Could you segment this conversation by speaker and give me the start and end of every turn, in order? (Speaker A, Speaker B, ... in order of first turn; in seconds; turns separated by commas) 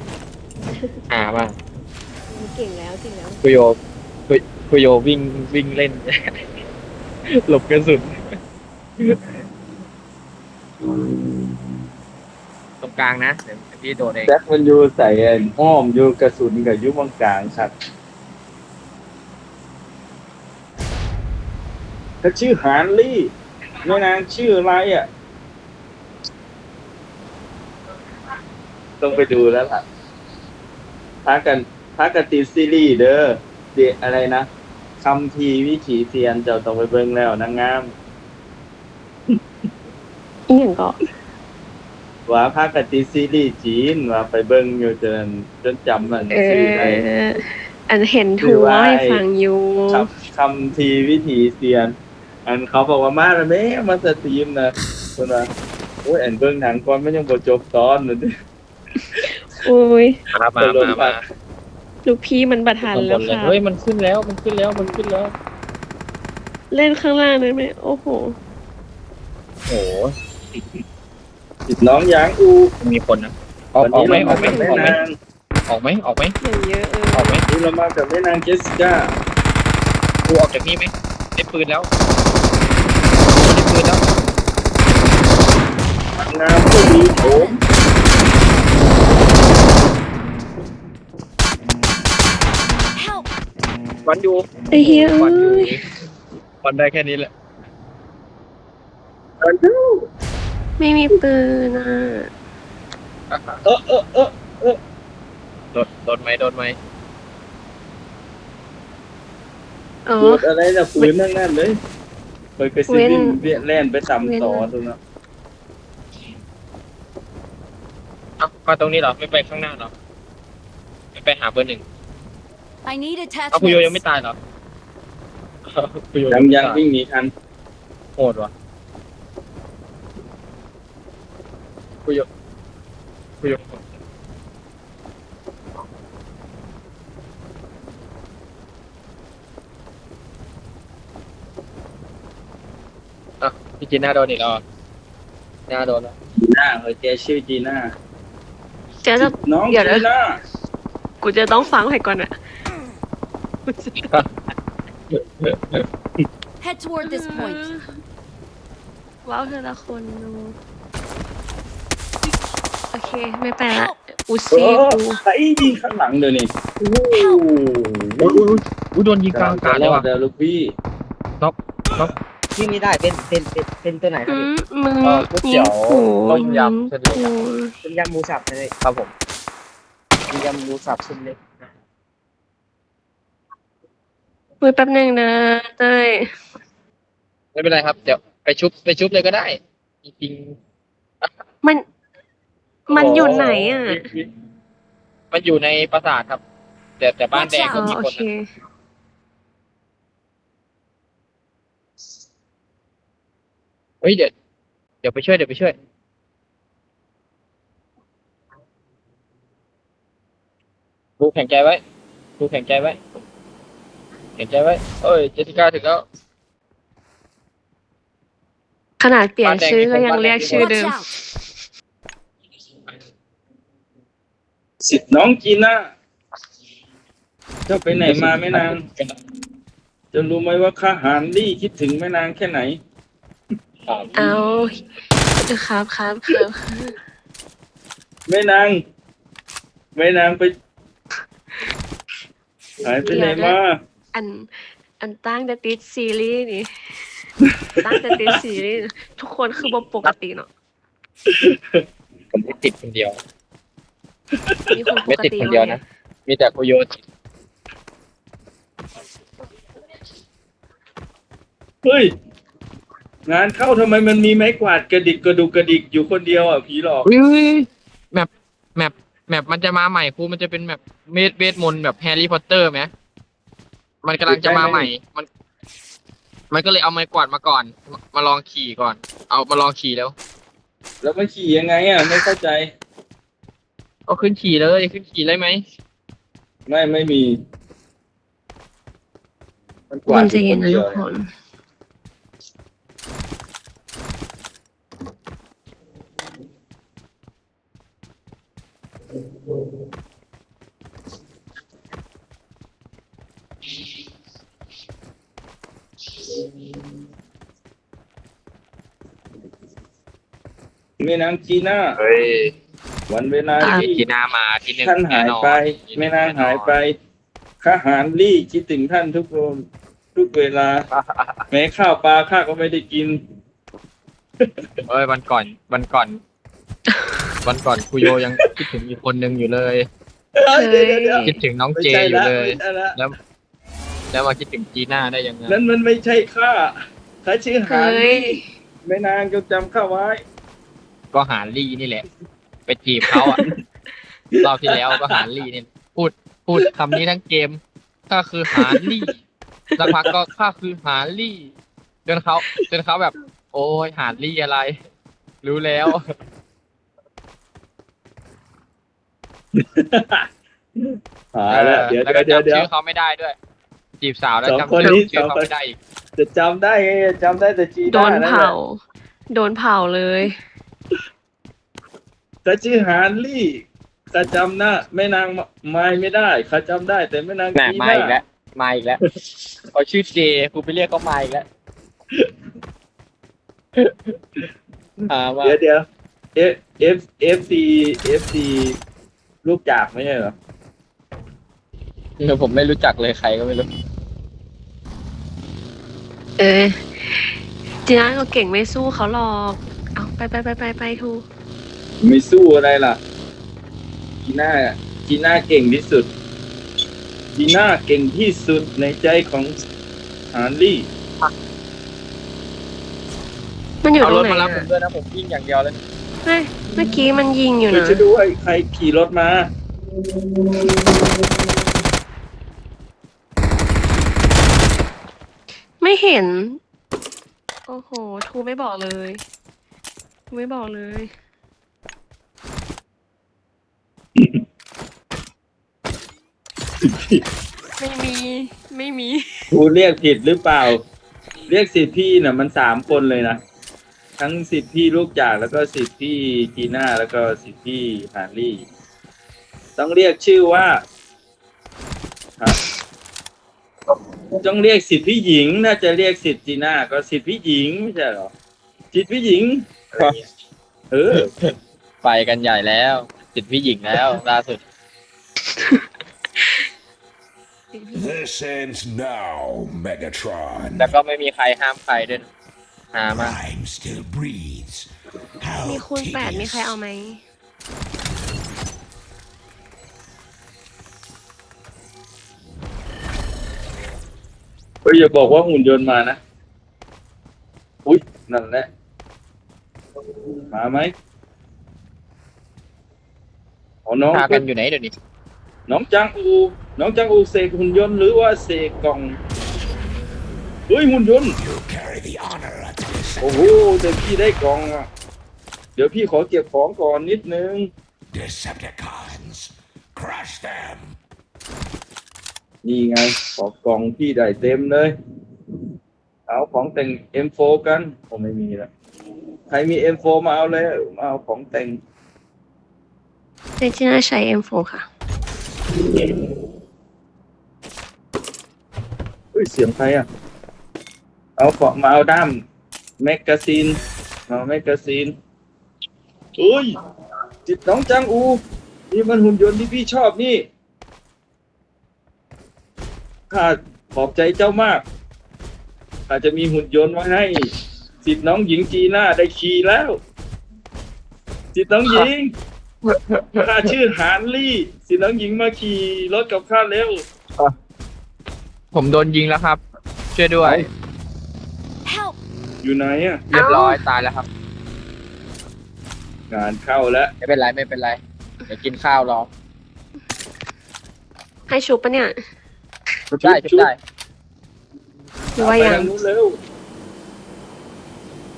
Speaker A: 0.7-1.0, Speaker B: 1.1-1.5, Speaker A: 2.3-3.4, Speaker B: 3.4-3.8, Speaker B: 4.3-6.2, Speaker B: 7.4-8.3, Speaker B: 12.8-14.3, Speaker C: 14.3-17.7, Speaker C: 22.2-23.3, Speaker C: 23.8-25.1, Speaker C: 29.0-29.8, Speaker C: 31.2-34.5, Speaker C: 35.0-37.9, Speaker A: 40.5-41.0, Speaker C: 42.3-47.0, Speaker A: 46.3-50.0, Speaker C: 48.4-49.2, Speaker C: 49.9-51.9, Speaker C: 52.5-55.5, Speaker C: 56.0-58.3, Speaker A: 59.0-60.2, Speaker B: 60.3-61.2, Speaker C: 60.6-61.2, Speaker A: 62.0-63.5, Speaker B: 62.9-65.3, Speaker A: 66.7-68.3, Speaker B: 69.7-70.1, Speaker C: 71.7-72.7, Speaker B: 72.8-75.0, Speaker C: 73.8-75.2, Speaker A: 74.3-75.0, Speaker B: 75.7-76.3, Speaker A: 76.4-77.4, Speaker B: 77.1-77.4, Speaker C: 77.5-79.1, Speaker B: 80.3-81.9, Speaker B: 83.3-84.0, Speaker C: 86.2-87.5, Speaker D: 86.8-87.6, Speaker D: 92.9-93.3, Speaker B: 94.0-95.8, Speaker A: 94.7-95.8, Speaker B: 96.6-97.3, Speaker C: 99.4-100.1, Speaker A: 100.8-102.3, Speaker B: 103.3-103.6, Speaker C: 103.6-104.8, Speaker B: 105.7-106.8, Speaker A: 110.0-110.5, Speaker C: 110.2-111.8, Speaker C: 112.6-115.0, Speaker A: 112.9-113.4, Speaker A: 114.2-114.7, Speaker B: 118.4-119.9, Speaker B: 121.1-121.8, Speaker D: 122.8-124.0, Speaker B: 123.5-124.3, Speaker B: 125.7-126.8, Speaker C: 126.3-127.3, Speaker B: 128.2-128.5, Speaker B: 133.4-133.8, Speaker B: 143.4-144.6, Speaker B: 145.7-146.1, Speaker C: 146.4-147.9, Speaker A: 149.0-150.1, Speaker C: 149.2-150.4, Speaker A: 151.2-152.3, Speaker A: 153.7-154.0, Speaker B: 155.1-155.8, Speaker D: 156.6-157.7, Speaker A: 157.0-157.8, Speaker A: 159.2-160.6, Speaker A: 162.9-165.2, Speaker D: 163.7-164.0, Speaker C: 164.5-168.4, Speaker D: 167.1-167.4, Speaker B: 168.2-170.0, Speaker C: 169.3-170.7, Speaker B: 171.4-172.1, Speaker E: 172.6-174.5, Speaker A: 174.3-177.7, Speaker B: 175.0-177.3, Speaker E: 177.8-178.7, Speaker B: 178.8-179.1, Speaker E: 180.3-181.4, Speaker A: 184.6-186.3, Speaker B: 187.5-190.6, Speaker A: 192.9-194.1, Speaker B: 192.9-194.0, Speaker C: 192.9-194.2, Speaker B: 195.3-196.4, Speaker B: 197.0-198.2, Speaker D: 197.3-197.9, Speaker A: 197.7-198.4, Speaker B: 204.0-204.3, Speaker B: 205.0-205.7, Speaker B: 211.2-211.8, Speaker B: 212.4-213.0, Speaker B: 214.4-216.0, Speaker A: 219.0-221.2, Speaker B: 219.4-220.7, Speaker D: 220.4-221.1, Speaker C: 224.8-225.9, Speaker C: 227.7-228.8, Speaker B: 228.1-229.1, Speaker C: 230.1-232.8, Speaker B: 233.9-234.3, Speaker A: 234.2-234.8, Speaker A: 235.4-236.9, Speaker C: 238.3-238.8, Speaker C: 239.9-240.5, Speaker C: 242.8-243.8, Speaker A: 243.1-243.6, Speaker A: 244.1-246.7, Speaker C: 247.5-248.4, Speaker A: 247.8-250.5, Speaker C: 251.3-251.8, Speaker B: 252.3-253.2, Speaker C: 254.4-254.7, Speaker A: 254.7-255.8, Speaker B: 255.1-257.0, Speaker C: 261.8-262.1, Speaker C: 263.3-267.1, Speaker B: 267.1-272.9, Speaker B: 274.0-275.3, Speaker C: 274.3-274.9, Speaker B: 276.5-280.1, Speaker C: 281.0-282.7, Speaker B: 284.1-285.6, Speaker C: 286.7-287.4, Speaker C: 289.9-291.0, Speaker A: 290.1-291.3, Speaker C: 311.0-312.0, Speaker B: 312.0-312.5, Speaker C: 313.1-314.0, Speaker A: 313.6-313.9, Speaker B: 313.6-316.7, Speaker C: 314.8-316.9, Speaker C: 317.6-320.9, Speaker B: 320.9-321.4, Speaker C: 321.5-323.2, Speaker C: 324.4-324.6, Speaker B: 324.9-326.2, Speaker A: 326.9-327.2, Speaker B: 327.4-329.9, Speaker C: 330.4-332.9, Speaker A: 330.5-331.4, Speaker B: 331.2-333.2, Speaker B: 334.1-335.6, Speaker C: 335.5-340.2, Speaker A: 337.7-338.4, Speaker B: 341.1-342.1, Speaker B: 342.7-343.4, Speaker C: 344.3-345.2, Speaker B: 344.4-349.1, Speaker C: 346.6-347.0, Speaker B: 349.8-351.5, Speaker B: 352.1-354.8, Speaker B: 355.4-356.1, Speaker C: 359.6-360.3, Speaker C: 360.8-362.7, Speaker B: 361.5-363.4, Speaker B: 364.0-365.8, Speaker C: 364.4-365.5, Speaker C: 366.2-368.6, Speaker A: 367.9-370.3, Speaker C: 372.4-378.2, Speaker B: 377.6-379.0, Speaker B: 379.7-381.4, Speaker B: 383.8-384.2, Speaker B: 385.1-385.6, Speaker C: 385.4-388.8, Speaker C: 389.4-390.4, Speaker B: 392.2-393.7, Speaker A: 396.4-401.2, Speaker C: 402.0-403.0, Speaker C: 404.2-406.1, Speaker C: 407.3-409.5, Speaker C: 410.3-410.9, Speaker A: 413.8-414.6, Speaker B: 414.0-415.8, Speaker A: 416.2-418.0, Speaker C: 417.7-419.5, Speaker A: 425.8-426.6, Speaker A: 427.7-429.2, Speaker A: 430.3-431.1, Speaker C: 436.8-437.2, Speaker A: 437.8-439.4, Speaker C: 439.5-440.8, Speaker C: 441.5-443.4, Speaker C: 444.2-448.6, Speaker C: 449.8-450.8, Speaker C: 454.4-458.3, Speaker C: 458.9-460.2, Speaker C: 460.9-461.3, Speaker B: 462.0-464.6, Speaker A: 467.7-468.1, Speaker F: 467.9-470.9, Speaker B: 470.8-472.3, Speaker B: 472.9-473.4, Speaker F: 473.1-474.9, Speaker F: 475.4-476.8, Speaker A: 475.6-477.2, Speaker C: 484.8-486.2, Speaker C: 487.9-488.7, Speaker C: 490.5-490.9, Speaker C: 493.9-494.4, Speaker B: 494.1-494.9, Speaker C: 495.7-499.2, Speaker C: 500.7-501.3, Speaker F: 501.4-503.6, Speaker C: 503.2-504.9, Speaker C: 505.8-507.7, Speaker F: 508.1-511.0, Speaker C: 512.6-514.9, Speaker C: 516.3-518.7, Speaker C: 519.5-521.8, Speaker A: 523.6-524.9, Speaker C: 529.3-530.0, Speaker C: 531.4-532.4, Speaker C: 533.0-533.8, Speaker C: 534.3-535.1, Speaker C: 536.4-536.8, Speaker C: 537.5-540.5, Speaker C: 543.3-544.8, Speaker C: 546.1-547.5, Speaker C: 548.0-550.0, Speaker C: 551.5-552.3, Speaker B: 552.8-553.4, Speaker C: 553.4-557.0, Speaker B: 558.7-559.6, Speaker B: 560.1-560.7, Speaker C: 560.4-560.7, Speaker D: 561.8-562.2, Speaker C: 562.6-563.2, Speaker B: 563.3-564.3, Speaker A: 563.3-563.8, Speaker C: 566.3-567.1, Speaker B: 567.2-569.3, Speaker A: 571.5-572.1, Speaker C: 573.1-573.7, Speaker B: 573.2-573.8, Speaker C: 575.3-576.4, Speaker A: 575.4-575.9